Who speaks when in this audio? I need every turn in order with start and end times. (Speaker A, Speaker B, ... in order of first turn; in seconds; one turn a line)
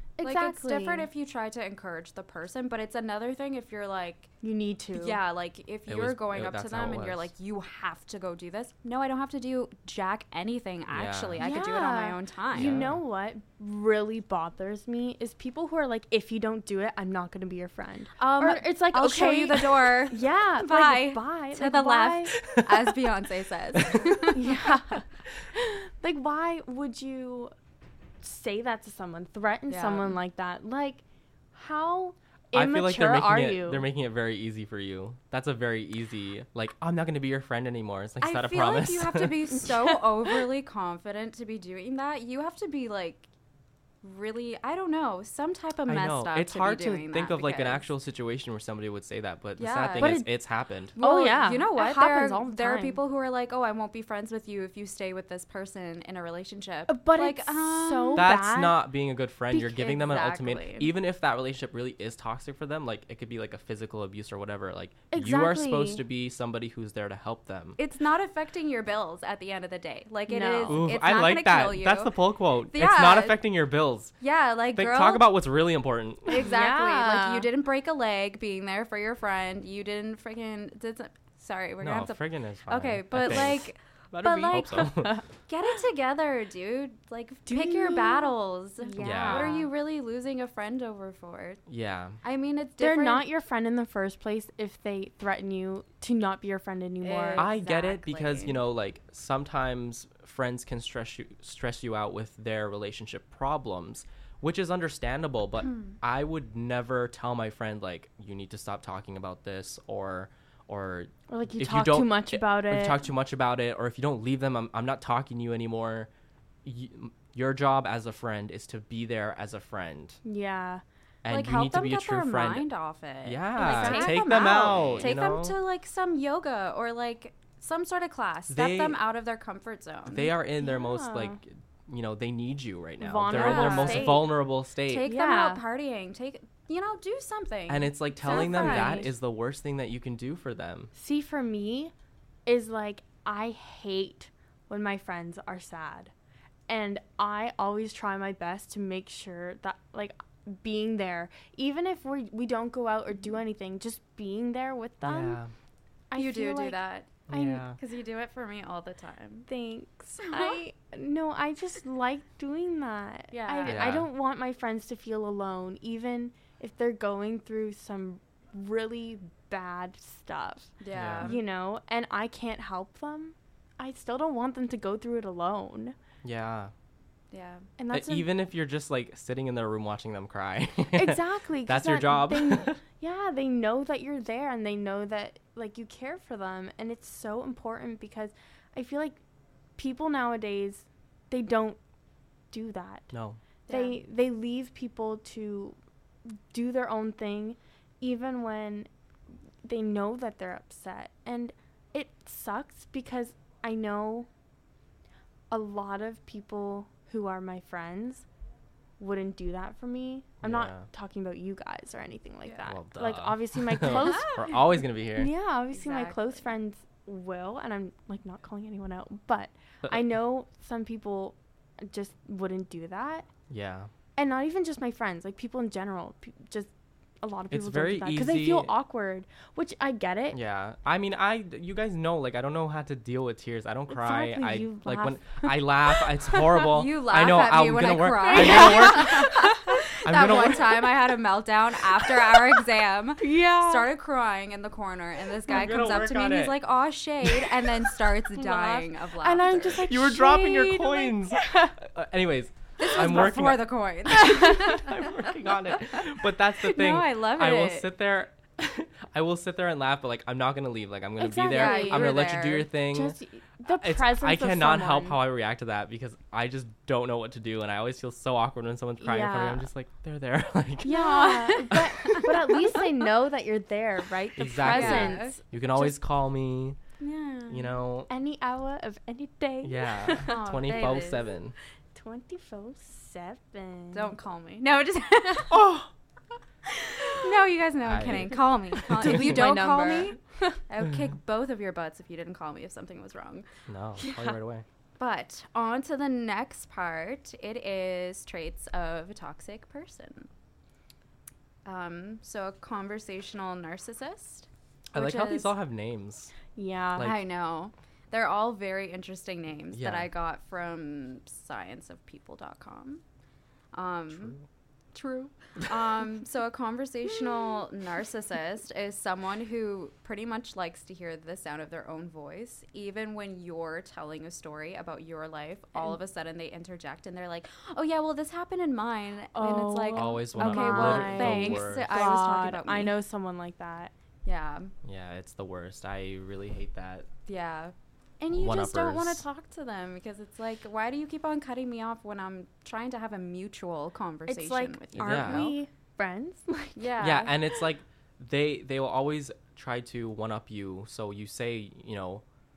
Speaker A: 0.2-1.1
Speaker B: 0.2-4.3
Speaker A: 4.4-5.2
Speaker B: 4.9-12.8
Speaker C: 5.9-7.3
Speaker C: 10.9-11.4
Speaker A: 11.4-22.4
Speaker C: 12.5-13.0
Speaker B: 18.2-24.6
Speaker C: 22.4-23.1
Speaker C: 23.8-24.2
Speaker A: 24.3-27.5
Speaker A: 28.2-31.0
Speaker B: 29.7-30.2
Speaker A: 31.5-33.9
Speaker C: 32.5-39.7
Speaker B: 38.2-43.3
Speaker B: 44.0-47.9
Speaker C: 45.9-50.9
Speaker B: 49.6-50.2
Speaker A: 50.0-50.3
Speaker B: 51.0-58.3
Speaker A: 51.0-53.0
Speaker A: 56.9-58.9
Speaker C: 58.2-67.8
Speaker B: 59.7-60.9
Speaker A: 65.1-66.0
Speaker B: 67.8-72.2
Speaker A: 70.3-70.9
Speaker C: 70.7-74.1
Speaker B: 72.7-73.4
Speaker B: 74.2-75.4
Speaker C: 74.8-76.4
Speaker B: 76.3-91.6
Speaker A: 76.3-77.5
Speaker C: 81.8-85.2
Speaker A: 87.5-89.7
Speaker C: 89.0-89.6
Speaker C: 91.7-92.2
Speaker B: 92.2-93.3
Speaker A: 92.8-97.5
Speaker B: 97.0-98.6
Speaker C: 97.4-116.1
Speaker A: 111.3-113.0
Speaker C: 116.6-120.2
Speaker A: 120.2-120.8
Speaker C: 121.2-122.7
Speaker B: 121.3-130.3
Speaker C: 123.2-125.6
Speaker A: 123.6-125.1
Speaker C: 128.5-129.0
Speaker C: 130.1-135.1
Speaker A: 130.6-131.4
Speaker A: 133.0-134.4
Speaker B: 133.3-134.3
Speaker B: 134.9-139.1
Speaker A: 135.0-135.6
Speaker C: 137.7-140.9
Speaker A: 138.2-139.1
Speaker A: 140.9-141.9
Speaker A: 142.5-146.1
Speaker A: 146.7-155.4
Speaker C: 155.0-155.5
Speaker A: 156.1-157.7
Speaker B: 156.2-159.5
Speaker C: 157.3-157.8
Speaker A: 159.5-176.0
Speaker B: 160.2-160.6
Speaker B: 163.3-163.9
Speaker C: 163.7-164.1
Speaker B: 170.8-171.4
Speaker C: 170.9-171.3
Speaker C: 176.2-176.7
Speaker B: 177.3-177.7
Speaker A: 177.8-178.3
Speaker C: 177.9-182.8
Speaker A: 180.9-189.2
Speaker A: 189.8-191.8
Speaker A: 192.5-193.1
Speaker C: 193.1-193.4
Speaker B: 193.7-194.0
Speaker A: 193.7-195.8
Speaker A: 196.3-198.9
Speaker A: 199.6-204.3
Speaker A: 205.5-208.3
Speaker A: 209.0-214.5
Speaker C: 210.4-210.9
Speaker C: 212.7-215.3
Speaker B: 213.8-214.6
Speaker A: 215.2-223.3
Speaker B: 215.7-216.4
Speaker C: 223.5-223.9
Speaker A: 224.2-226.7
Speaker A: 227.2-230.4
Speaker C: 227.5-228.7
Speaker C: 230.3-240.9
Speaker A: 233.9-236.4
Speaker B: 236.6-249.8
Speaker A: 238.3-239.6
Speaker A: 243.2-243.9
Speaker C: 245.5-246.6
Speaker C: 247.2-247.6
Speaker A: 248.4-251.8
Speaker C: 249.7-263.2
Speaker B: 252.8-257.9
Speaker A: 254.1-254.9
Speaker A: 261.2-265.2
Speaker B: 261.5-262.7
Speaker C: 263.7-272.4
Speaker A: 269.0-269.7
Speaker A: 270.8-276.0
Speaker B: 270.9-272.5
Speaker C: 274.4-276.8
Speaker B: 274.6-275.4
Speaker B: 277.0-277.8
Speaker C: 277.5-278.1
Speaker A: 278.1-281.1
Speaker C: 279.6-281.6
Speaker B: 280.3-281.3
Speaker A: 281.9-284.1
Speaker B: 283.9-285.7
Speaker C: 285.5-285.9
Speaker B: 286.7-293.5
Speaker C: 287.8-289.5
Speaker A: 288.9-290.6
Speaker C: 293.7-294.6
Speaker A: 294.0-294.4
Speaker B: 295.0-300.3
Speaker B: 301.6-305.5
Speaker C: 304.9-306.4
Speaker A: 306.5-307.2
Speaker B: 307.0-313.0
Speaker C: 309.7-310.1
Speaker B: 313.7-314.4
Speaker B: 314.9-333.0
Speaker A: 329.4-333.9
Speaker C: 329.9-332.1
Speaker B: 334.2-334.7
Speaker C: 334.8-337.1
Speaker B: 337.3-345.6
Speaker C: 338.3-339.2
Speaker A: 344.3-347.1
Speaker C: 345.0-345.6
Speaker B: 346.8-347.3
Speaker C: 347.0-352.2